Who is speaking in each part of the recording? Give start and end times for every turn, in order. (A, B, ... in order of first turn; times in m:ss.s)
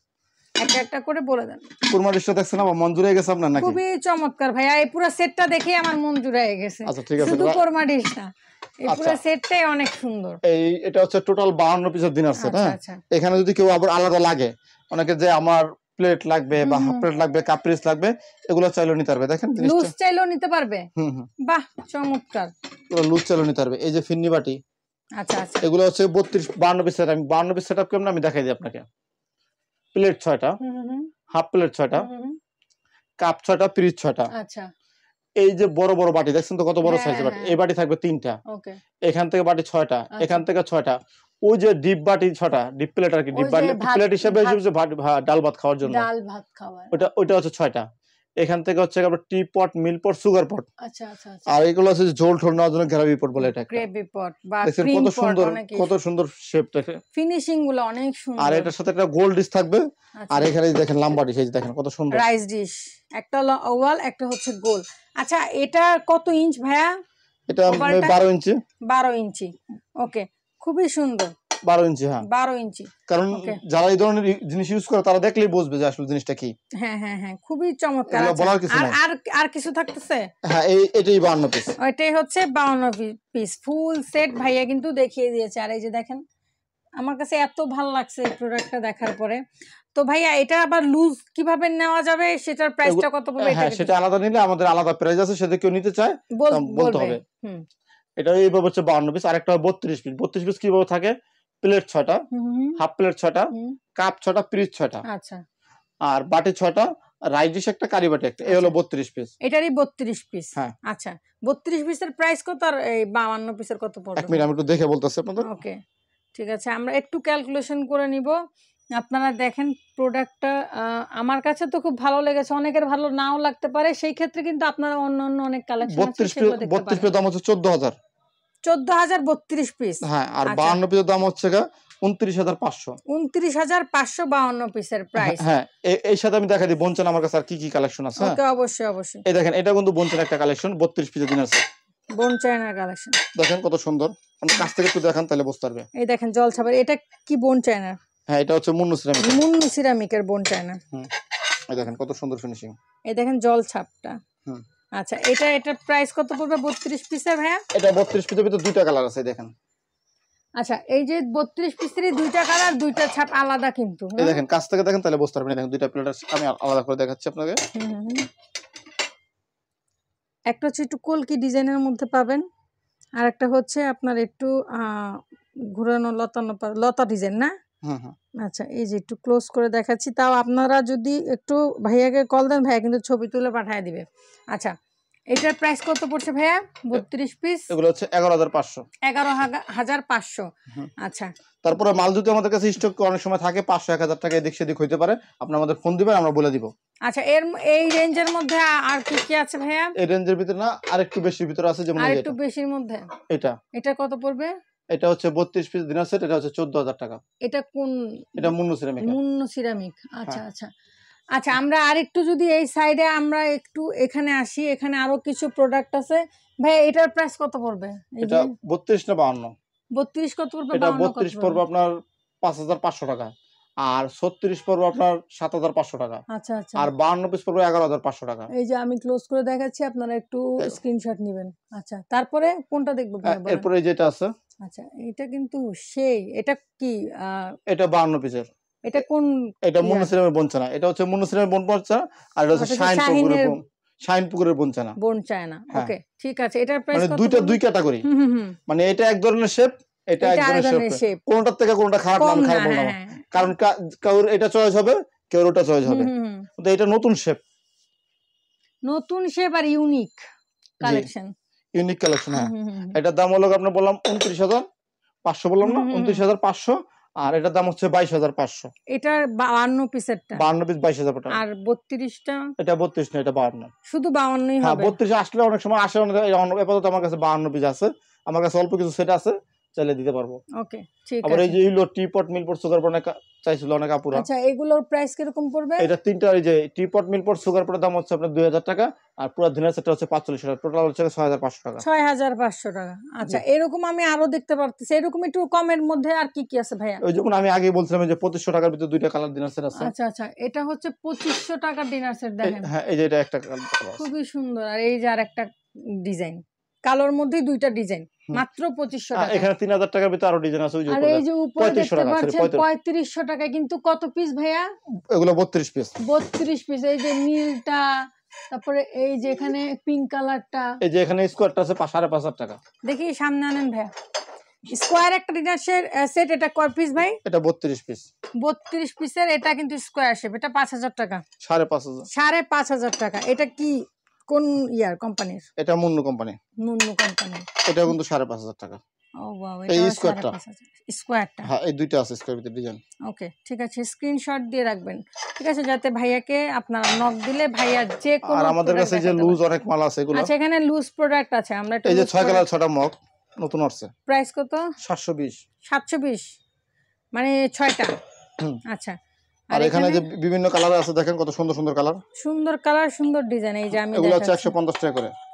0:00.6-0:01.7 A
0:01.9-0:03.8 B
0:03.6-0:08.3 A
0:06.9-0:07.6 B
0:08.8-0:10.4 A
0:08.9-0:09.2 B
0:10.4-0:19.9 B
0:12.4-0:13.0 A
0:16.6-0:17.1 A
0:19.6-0:20.9 A
0:21.0-0:21.3 B
0:21.5-0:22.5 A
0:22.9-0:24.6 B
0:25.2-0:25.6 A
0:25.6-0:28.8 B
0:30.0-0:30.6 B
0:30.6-0:31.1 A
0:31.3-0:32.1 B
0:32.0-0:32.4 A
0:33.2-0:34.3 B
0:34.3-0:34.7 A
0:35.4-0:38.4 B
0:36.8-0:37.6 A
0:38.5-0:38.8 A
0:39.0-0:46.1 B
0:40.1-0:40.4 A
0:43.3-0:44.6 A
0:45.9-0:47.1 A
0:46.9-0:47.9 B
0:48.4-0:50.7 B
0:50.8-0:51.6 A
0:51.5-0:53.8 B
0:53.4-0:55.9 A
0:54.6-0:57.0 B
0:57.2-0:58.7 A
0:58.4-1:02.2 B
1:00.2-1:00.5 A
1:02.1-1:06.9 A
1:07.5-1:08.6 B
1:07.7-1:08.2 A
1:08.9-1:11.3 A
1:11.6-1:12.2 B
1:12.2-1:13.6 A
1:13.1-1:16.5 B
1:16.8-1:20.3 A
1:18.1-1:19.0 B
1:20.4-1:21.8 B
1:21.8-1:26.2 A
1:27.0-1:29.4 A
1:30.0-1:33.9 A
1:32.8-1:37.2 B
1:36.4-1:37.6 A
1:38.2-1:42.2 B
1:42.3-1:42.8 A
1:42.8-1:45.0 B
1:43.5-1:43.8 A
1:45.1-1:45.4 A
1:46.1-1:49.3 B
1:48.5-1:48.7 A
1:49.4-1:54.4 A
1:54.2-1:55.5 B
1:55.4-1:55.8 A
1:56.3-1:58.4 A
1:59.0-2:07.1 A
2:05.9-2:08.0 B
2:08.6-2:10.8 A
2:10.0-2:13.0 B
2:13.1-2:15.5 A
2:15.2-2:18.4 B
2:18.2-2:19.2 A
2:19.3-2:21.6 B
2:22.2-2:23.2 A
2:23.4-2:25.9 B
2:26.0-2:28.0 A
2:28.3-2:29.4 B
2:29.2-2:30.8 A
2:31.7-2:32.8 B
2:33.1-2:34.2 A
2:35.0-2:37.6 A
2:37.7-2:39.5 B
2:40.6-2:44.4 A
2:44.2-2:47.6 B
2:47.7-2:48.3 A
2:50.5-2:52.4 A
2:53.2-2:55.2 A
2:55.7-2:57.5 A
2:57.8-2:58.2 B
2:58.4-3:04.7 A
3:05.3-3:07.7 A
3:07.7-3:08.8 B
3:09.0-3:11.3 A
3:11.6-3:16.7 B
3:17.1-3:19.9 A
3:20.0-3:22.4 B
3:22.0-3:23.1 A
3:23.3-3:23.6 B
3:23.7-3:24.5 A
3:24.9-3:27.2 B
3:27.4-3:28.5 A
3:28.4-3:29.2 B
3:29.0-3:30.7 A
3:31.3-3:38.5 A
3:38.2-3:39.5 B
3:40.0-3:41.6 A
3:40.7-3:43.3 B
3:43.8-3:46.2 B
3:46.3-3:46.9 A
3:46.8-3:48.5 B
3:48.5-3:53.7 A
3:53.2-3:54.3 B
3:54.6-3:57.6 A
3:57.7-3:58.5 B
3:58.8-4:00.1 A
3:59.7-4:05.0 B
4:02.6-4:03.6 A
4:05.0-4:08.6 A
4:06.9-4:08.0 B
4:08.7-4:17.4 B
4:10.2-4:11.2 A
4:12.2-4:13.5 A
4:15.8-4:16.5 A
4:18.9-4:20.2 A
4:20.8-4:21.1 B
4:20.8-4:21.3 A
4:21.8-4:24.6 B
4:22.3-4:23.0 A
4:25.2-4:28.7 B
4:25.6-4:26.2 A
4:28.9-4:30.4 A
4:30.4-4:31.4 B
4:31.3-4:32.5 A
4:32.6-4:33.7 B
4:33.9-4:35.0 A
4:34.6-4:40.4 B
4:40.6-4:41.6 A
4:41.2-4:44.3 B
4:44.1-4:45.9 A
4:45.8-4:51.8 B
4:51.8-4:57.0 A
4:57.0-4:59.9 B
4:59.8-5:02.7 A
5:02.4-5:04.0 B
5:04.0-5:09.5 A
5:09.1-5:12.6 B
5:10.9-5:14.7 A
5:15.1-5:16.0 B
5:16.0-5:20.8 A
5:20.8-5:22.6 B
5:22.8-5:23.9 A
5:24.7-5:27.2 A
5:27.2-5:28.1 B
5:28.4-5:31.2 A
5:31.4-5:32.1 B
5:32.1-5:35.5 A
5:35.6-5:36.4 B
5:36.6-5:37.5 A
5:37.7-5:38.8 B
5:39.2-5:41.5 A
5:39.7-5:40.4 B
5:41.4-5:42.8 B
5:43.1-5:49.4 A
5:48.2-5:50.3 B
5:50.1-5:52.5 A
5:51.8-5:53.9 B
5:54.1-5:54.8 A
5:54.8-5:55.4 B
5:55.7-5:56.3 A
5:57.1-5:58.0 A
5:58.7-5:59.0 A
5:59.5-6:00.1 A
5:59.5-6:02.0 B
6:02.2-6:04.5 A
6:03.7-6:05.1 B